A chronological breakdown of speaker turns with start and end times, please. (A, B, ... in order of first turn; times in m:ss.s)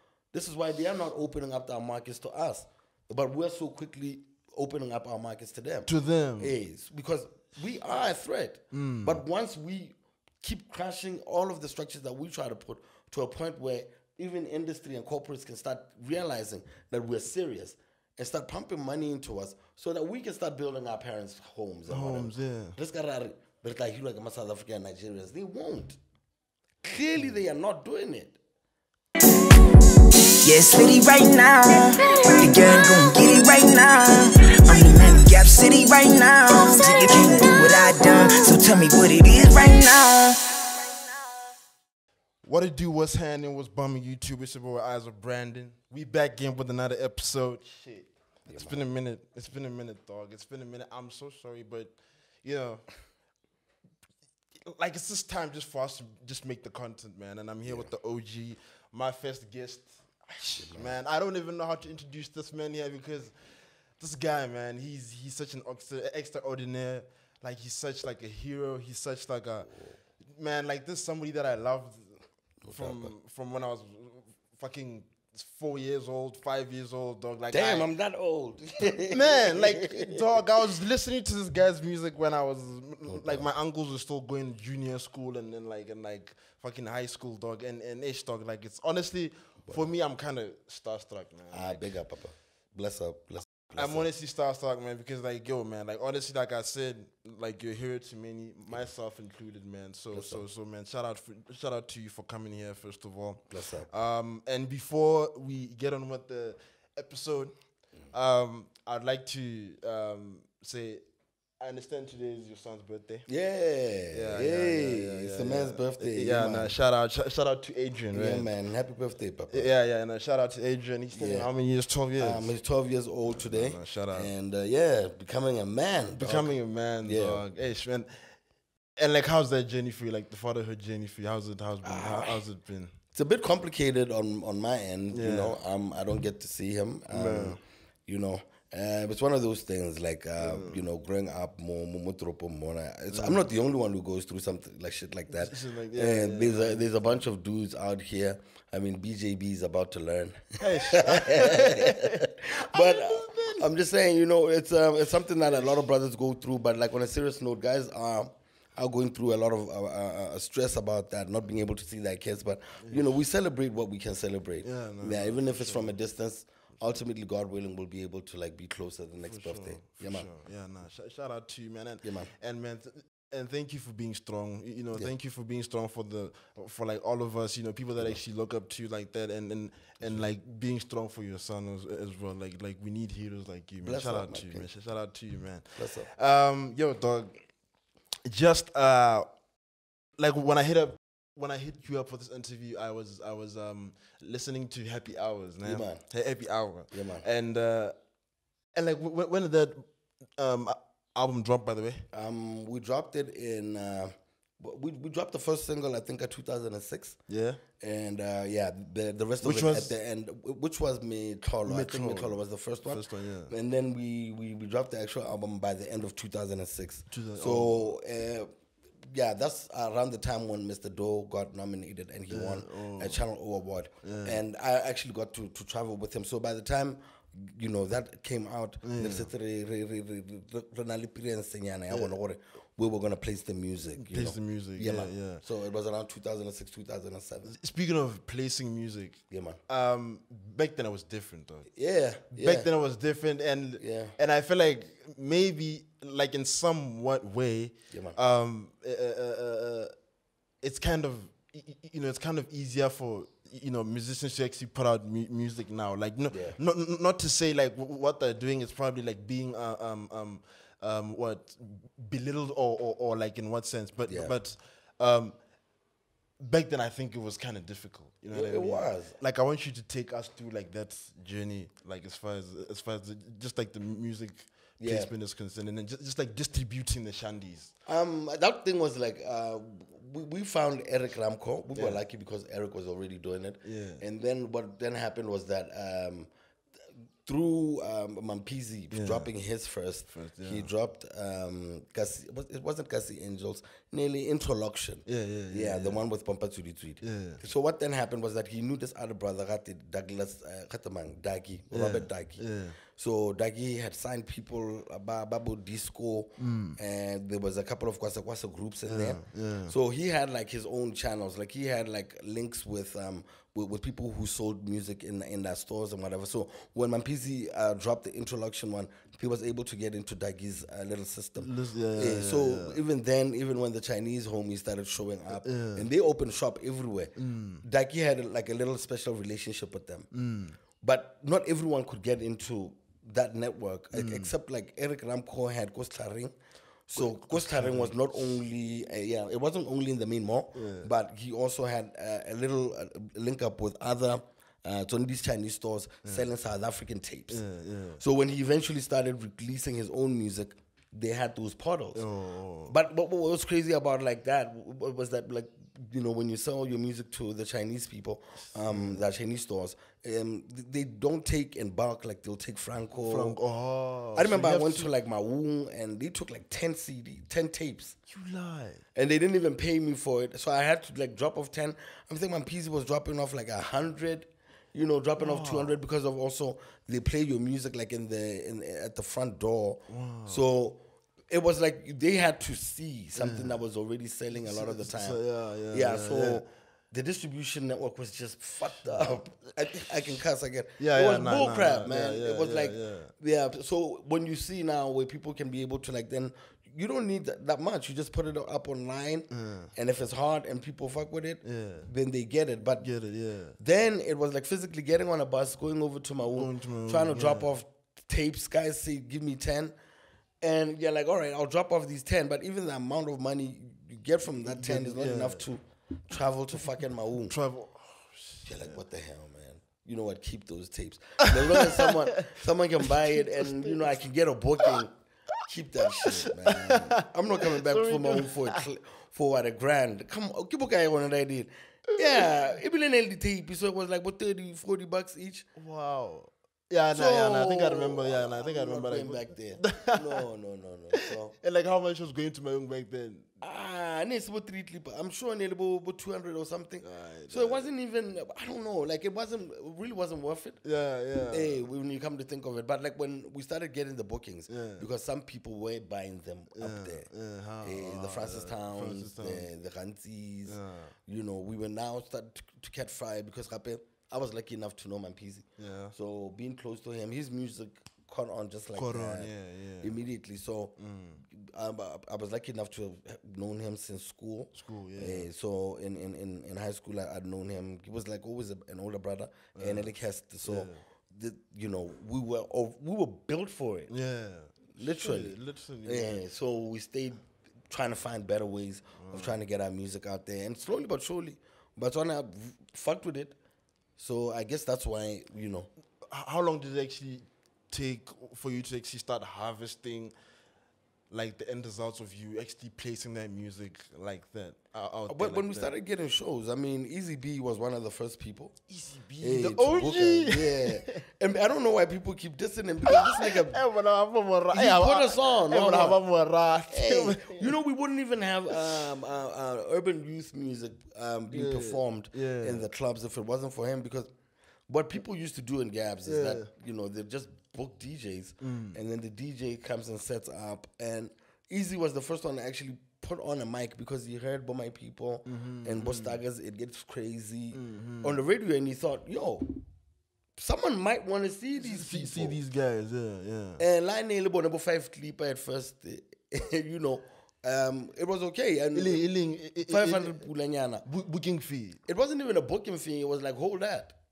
0:00.3-0:26.0 A
0:05.8-0:06.5 B
0:08.7-0:09.2 B
0:21.9-0:22.8 B
0:26.8-0:28.4 A
0:30.4-0:41.1 C
0:42.4-0:52.9 B
0:48.5-0:48.8 A
0:54.6-1:09.7 B
1:00.4-1:01.0 A
1:10.3-1:12.2 B
1:12.6-1:13.1 A
1:12.7-1:17.9 B
1:17.5-1:20.7 A
1:19.0-1:31.9 B
1:23.0-1:23.5 A
1:31.5-1:34.1 A
1:33.7-1:47.5 B
1:40.1-1:40.4 A
1:43.5-1:43.9 A
1:48.1-1:51.0 B
1:51.6-1:53.2 B
1:53.3-1:56.7 A
1:54.1-1:58.5 B
1:58.1-1:59.7 A
1:59.5-2:02.6 B
2:01.1-2:01.5 A
2:02.2-2:07.4 A
2:03.3-2:04.3 B
2:06.2-2:08.3 B
2:09.0-2:12.9 B
2:11.8-2:12.4 A
2:13.1-2:50.3 A
2:15.1-2:15.6 B
2:17.1-2:17.6 B
2:20.4-2:20.8 B
2:23.1-2:23.5 B
2:25.3-2:27.2 B
2:30.6-2:33.7 B
2:42.8-2:43.1 B
2:44.6-2:45.9 B
2:49.2-3:07.4 B
2:52.0-2:52.3 A
3:03.8-3:04.7 A
3:05.8-3:06.1 A
3:08.2-3:09.3 B
3:10.2-3:18.0 B
3:15.6-3:16.0 A
3:16.9-3:17.2 A
3:18.7-3:22.0 B
3:22.1-3:27.2 A
3:27.3-3:27.6 B
3:27.8-3:38.5 A
3:29.4-3:29.9 B
3:31.6-3:33.5 B
3:37.1-3:37.9 B
3:39.1-3:57.6 A
3:42.3-3:43.2 B
3:44.0-3:44.4 B
3:48.8-3:49.3 B
3:54.0-3:55.4 B
3:57.5-4:01.7 B
3:59.3-3:59.6 A
4:01.8-4:02.7 A
4:02.4-4:09.9 B
4:03.8-4:04.2 A
4:07.9-4:08.2 A
4:10.6-4:25.4 B
4:16.3-4:16.6 A
4:24.1-4:24.3 A
4:26.4-4:37.7 B
4:28.3-4:29.2 A
4:34.8-4:35.1 A
4:37.8-4:46.3 A
4:41.7-4:42.0 B
4:43.6-4:44.0 B
4:47.2-5:30.1 A
4:48.9-4:49.3 B
4:50.1-4:50.7 B
4:55.1-4:56.0 B
4:57.0-4:57.4 B
5:01.7-5:02.8 B
5:06.4-5:06.8 B
5:08.9-5:09.7 B
5:21.4-5:22.8 B
5:25.4-5:25.9 B
5:27.2-5:27.6 B
5:30.1-5:30.6 B
5:30.8-5:36.3 A
5:33.9-5:34.3 B
5:36.9-5:47.4 A
5:36.9-5:38.4 B
5:40.5-5:40.9 B
5:47.3-5:48.0 B
5:48.0-5:52.0 A
5:52.0-5:52.7 B
5:52.6-6:03.4 A
5:58.6-5:59.0 B
6:03.0-6:04.9 B
6:04.1-6:08.0 A
6:08.1-6:08.8 B
6:08.9-6:42.9 A
6:15.2-6:15.8 B
6:19.9-6:20.4 B
6:23.2-6:23.6 B
6:24.3-6:26.4 B
6:28.8-6:29.1 B
6:29.7-6:30.2 B
6:30.8-6:33.1 B
6:39.3-6:39.7 B
6:41.4-6:41.9 B
6:42.8-6:43.6 B
6:43.6-6:49.7 A
6:46.3-6:47.5 B
6:50.4-6:57.4 A
6:54.4-6:55.4 B
6:57.3-6:58.8 B
6:58.4-7:15.5 A
7:01.3-7:03.9 B
7:06.0-7:08.6 B
7:11.9-7:12.3 B
7:15.6-7:20.2 B
7:16.9-7:21.3 A
7:20.9-7:23.3 B
7:23.4-7:30.6 A
7:26.8-7:27.7 B
7:30.6-7:31.6 B
7:31.3-7:37.1 A
7:34.5-7:34.8 B
7:36.5-7:39.5 B
7:37.6-8:03.9 A
7:40.5-7:40.9 B
7:45.6-7:45.9 B
7:48.7-7:49.9 B
7:50.8-7:51.2 B
7:54.5-7:55.3 B
7:59.6-7:59.9 B
8:00.4-8:00.8 B
8:03.9-8:06.2 B
8:04.7-8:13.4 A
8:09.0-8:09.4 B
8:14.0-8:15.7 A
8:16.0-8:20.1 B
8:21.1-8:25.7 B
8:25.1-8:28.6 A
8:28.7-8:31.0 B
8:29.2-8:33.6 A
8:32.8-8:37.6 B
8:34.5-8:36.0 A
8:36.7-8:44.1 A
8:38.5-8:38.8 B
8:41.3-8:42.6 B
8:44.7-8:59.5 A
8:46.0-8:46.5 B
8:48.4-8:48.8 B
8:55.2-8:56.2 B
8:57.5-8:58.2 B
9:00.4-9:02.4 A
9:01.6-9:03.6 B
9:03.6-9:09.0 A
9:08.7-9:10.3 B
9:09.6-9:10.8 A
9:10.8-9:11.8 B
9:11.9-9:13.9 A